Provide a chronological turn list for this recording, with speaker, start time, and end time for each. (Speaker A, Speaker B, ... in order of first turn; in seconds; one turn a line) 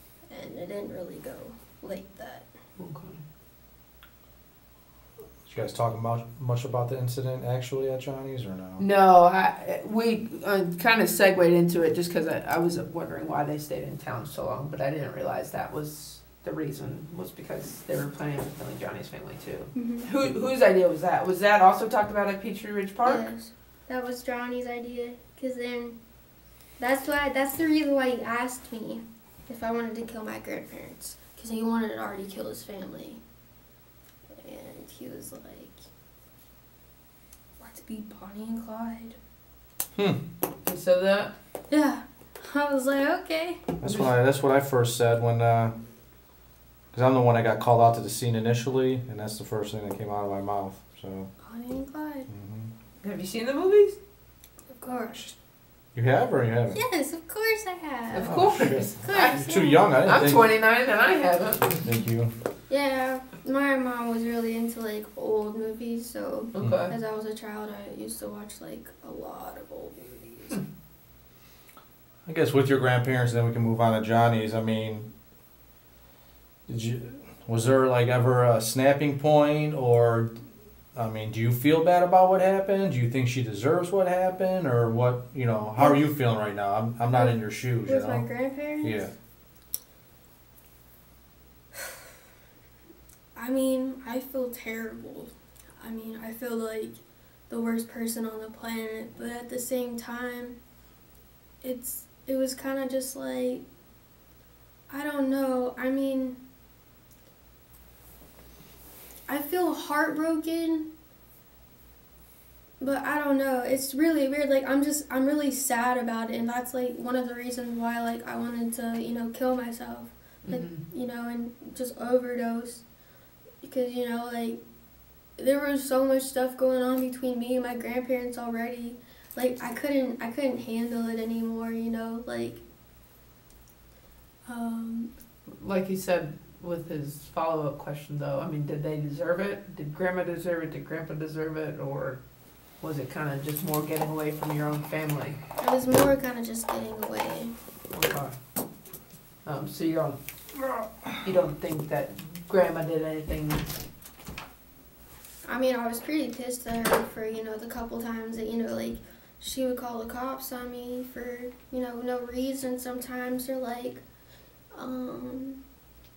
Speaker A: 0.3-2.5
Speaker B: 2.8-3.2
Speaker C: 5.5-8.8
Speaker B: 8.8-23.2
Speaker A: 19.7-20.1
Speaker A: 23.0-26.0
Speaker A: 26.8-33.2
Speaker A: 34.4-35.8
Speaker A: 37.6-39.2
Speaker C: 40.0-40.2
Speaker B: 40.6-41.3
Speaker A: 41.7-43.6
Speaker C: 43.8-45.8
Speaker C: 46.9-51.3
Speaker A: 51.4-52.3
Speaker C: 52.3-52.7
Speaker B: 53.0-54.0
Speaker A: 54.7-55.2
Speaker C: 55.9-56.8
Speaker A: 56.7-59.8
Speaker B: 58.1-61.8
Speaker C: 58.2-60.5
Speaker C: 61.8-62.3
Speaker A: 62.7-70.6
Speaker B: 66.5-66.9
Speaker C: 66.6-66.9
Speaker C: 72.2-75.1
Speaker C: 76.7-80.4
Speaker C: 80.9-88.3
Speaker A: 85.8-86.1
Speaker A: 87.1-89.1
Speaker C: 88.8-89.1
Speaker A: 93.3-100.6
Speaker A: 101.6-103.6
Speaker A: 104.9-106.4
Speaker A: 109.3-110.9
Speaker A: 112.8-122.8
Speaker B: 120.4-120.8
Speaker A: 123.6-124.6
Speaker A: 125.4-132.6
Speaker A: 134.4-135.1
Speaker B: 135.5-142.2
Speaker B: 142.8-145.4
Speaker A: 145.6-147.5
Speaker B: 147.9-148.3
Speaker B: 149.4-150.2
Speaker C: 150.7-151.1
Speaker B: 151.2-153.7
Speaker A: 155.4-164.0
Speaker A: 164.7-165.6